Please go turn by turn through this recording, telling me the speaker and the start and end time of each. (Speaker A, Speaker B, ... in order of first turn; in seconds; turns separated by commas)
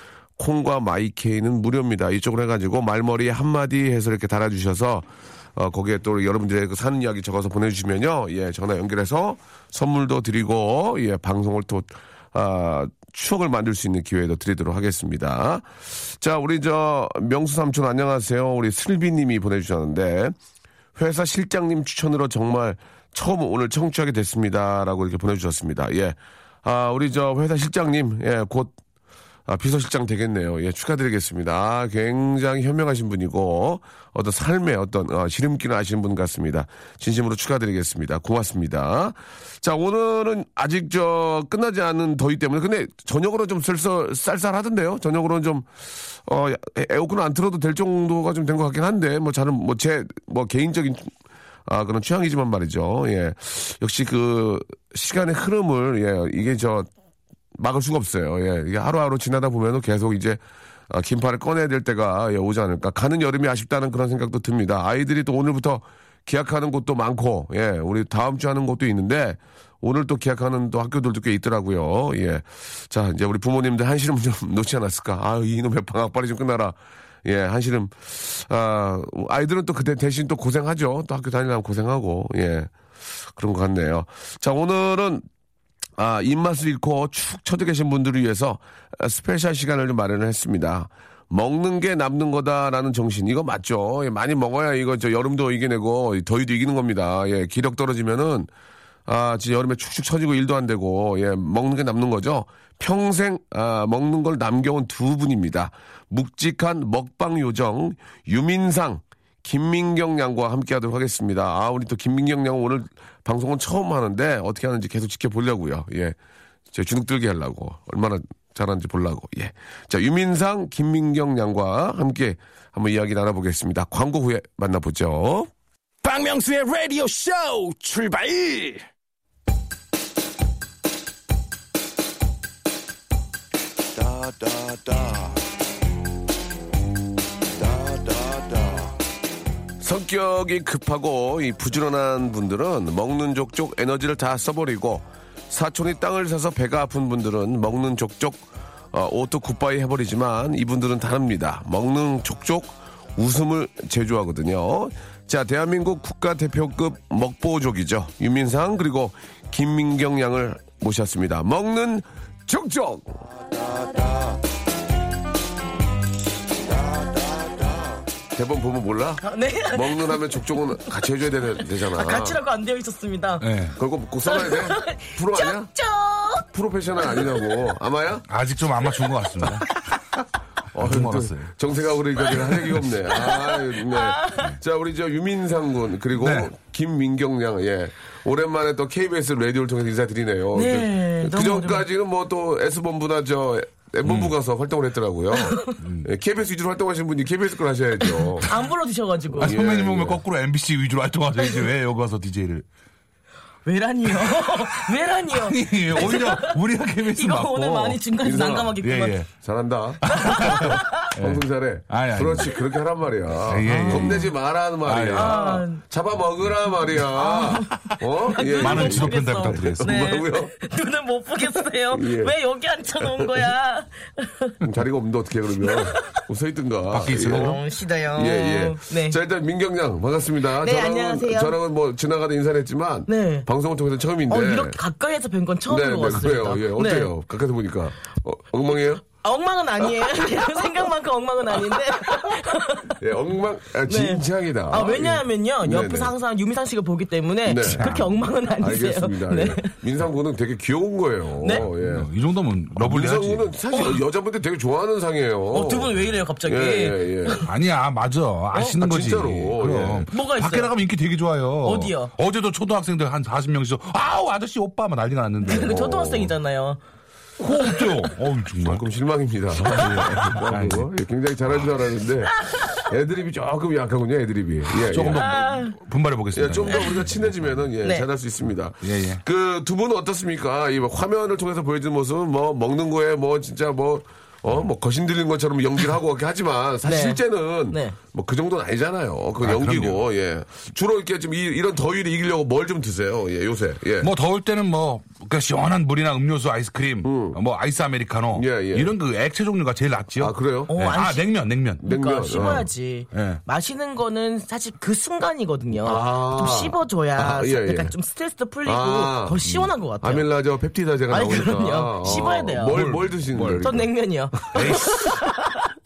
Speaker A: 0.4-20.4, Speaker A: 21.0-28.8, Speaker A: 29.5-51.1, Speaker A: 51.7-56.9, Speaker A: 57.5-85.2, Speaker A: 86.0-98.5, Speaker A: 99.1-116.2, Speaker A: 116.7-125.5, Speaker B: 126.0-128.9, Speaker B: 134.0-135.4, Speaker B: 137.6-138.9, Speaker A: 139.8-163.2, Speaker A: 168.3-172.4, Speaker C: 169.2-170.4, Speaker C: 171.6-173.5, Speaker D: 173.4-173.8, Speaker A: 173.8-175.7, Speaker C: 174.2-176.5, Speaker A: 176.5-178.3, Speaker C: 177.1-177.4, Speaker D: 178.3-181.5, Speaker A: 180.7-198.5, Speaker C: 183.1-184.5, Speaker D: 186.2-186.5, Speaker C: 190.5-191.9, Speaker D: 194.1-194.3, Speaker C: 195.4-195.8, Speaker D: 195.8-196.1, Speaker C: 198.2-199.6, Speaker A: 199.4-200.2, Speaker D: 199.4-202.7, Speaker C: 203.7-209.2, Speaker D: 204.4-204.8, Speaker D: 205.3-208.0, Speaker A: 208.2-208.8, Speaker D: 208.8-209.3, Speaker A: 209.3-220.5, Speaker D: 210.0-212.6, Speaker C: 210.1-211.1, Speaker D: 213.5-214.3, Speaker C: 213.7-214.3, Speaker D: 214.8-215.6, Speaker C: 215.2-215.8, Speaker C: 217.0-224.6, Speaker D: 218.5-220.1, Speaker A: 221.9-222.3, Speaker A: 223.0-223.5, Speaker A: 224.6-227.6, Speaker C: 225.6-226.2, Speaker D: 226.9-227.6, Speaker C: 227.2-229.2, Speaker A: 228.1-234.8, Speaker C: 230.6-231.6, Speaker C: 233.1-233.5, Speaker C: 234.3-237.1, Speaker A: 235.7-239.1, Speaker C: 239.1-243.0, Speaker A: 240.0-240.5, Speaker A: 242.9-246.1, Speaker C: 243.9-249.8, Speaker A: 247.4-247.9, Speaker D: 247.6-248.3, Speaker A: 248.6-252.1, Speaker C: 251.4-251.7, Speaker D: 251.6-253.6, Speaker A: 252.8-257.5, Speaker C: 255.5-257.5, Speaker D: 257.4-265.8, Speaker A: 258.6-260.1, Speaker C: 260.1-260.7, Speaker C: 261.6-262.1, Speaker C: 265.4-266.8, Speaker A: 265.6-266.3, Speaker D: 267.4-268.9, Speaker A: 268.6-275.3, Speaker D: 269.7-270.9, Speaker C: 272.4-272.8, Speaker D: 274.8-277.6, Speaker C: 275.1-275.8, Speaker A: 276.3-294.1, Speaker C: 276.7-277.0, Speaker D: 278.8-279.2, Speaker C: 286.8-288.0, Speaker D: 289.4-290.1, Speaker D: 294.0-302.5, Speaker A: 297.0-297.4, Speaker A: 298.3-298.9, Speaker A: 300.2-300.7, Speaker C: 300.7-301.3, Speaker A: 301.8-302.7, Speaker C: 301.8-310.3, Speaker D: 303.1-303.4, Speaker A: 305.8-307.9, Speaker A: 308.6-313.9, Speaker C: 311.1-312.8, Speaker D: 312.2-313.8, Speaker C: 313.6-315.7, Speaker D: 314.5-315.1